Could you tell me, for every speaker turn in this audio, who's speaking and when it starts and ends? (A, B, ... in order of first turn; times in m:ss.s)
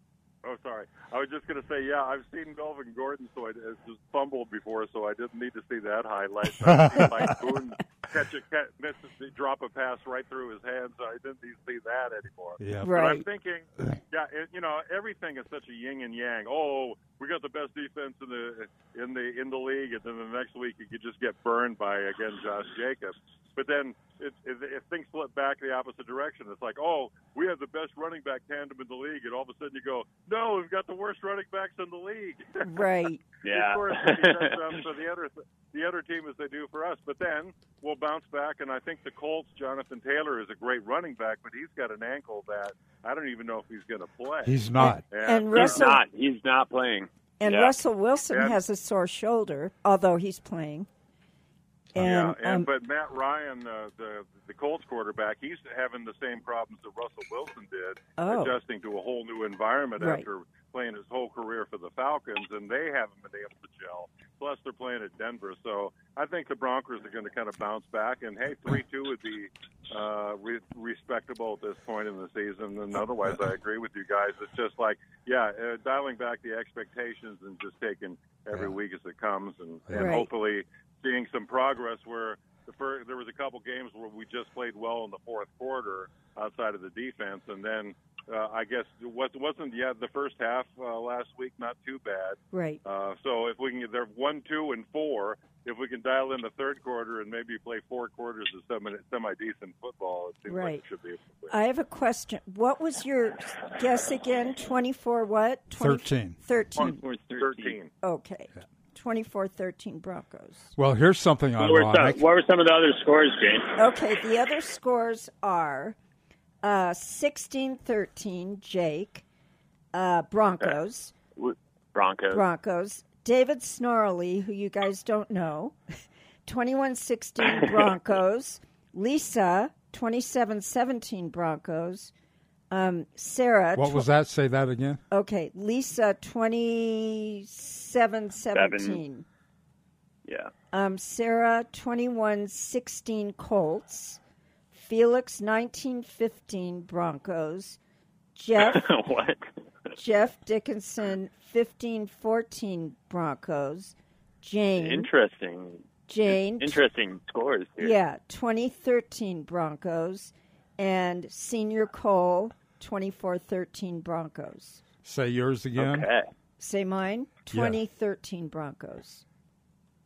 0:00.4-0:32.8 A
0:06.6-0:07.4 B
0:12.6-0:13.0 B
0:12.8-0:13.2 C
0:32.6-0:33.2 C
0:33.4-0:34.8 D
0:33.4-0:45.9 A
0:44.4-0:45.0 B
0:44.8-0:46.0 C
0:45.5-0:47.8 D
0:47.4-0:50.9 C
0:48.3-0:48.6 A
0:52.0-0:52.7 C
0:52.0-1:41.5 A
0:58.2-0:58.5 C
1:00.0-1:00.2 C
1:19.9-1:20.2 B
1:19.9-1:20.3 C
1:32.5-1:32.8 C
1:40.5-1:40.8 C
1:41.5-1:47.0 C
1:45.8-1:46.4 B
1:46.8-1:47.8 D
1:47.3-1:47.9 A
1:48.0-1:50.7 C
1:50.8-1:52.2 B
1:51.6-1:53.8 D
1:53.8-1:56.0 C
1:56.6-1:59.2 C
1:59.9-2:01.1 C
2:01.4-2:02.4 D
2:02.3-2:05.8 C
2:06.4-2:12.1 C
2:12.7-2:14.0 C
2:13.8-2:15.0 B
2:15.1-2:19.2 C
2:18.5-2:19.0 D
2:20.2-2:20.5 D
2:20.7-2:24.2 C
2:24.7-2:27.8 C
2:28.4-2:28.9 C
2:28.6-2:29.5 D
2:29.9-2:35.1 C
2:34.8-2:35.8 D
2:36.1-2:36.8 C
2:36.5-2:37.9 D
2:37.8-2:44.8 C
2:45.0-2:46.1 B
2:45.8-2:46.3 D
2:46.6-2:49.2 C
2:47.5-2:47.8 B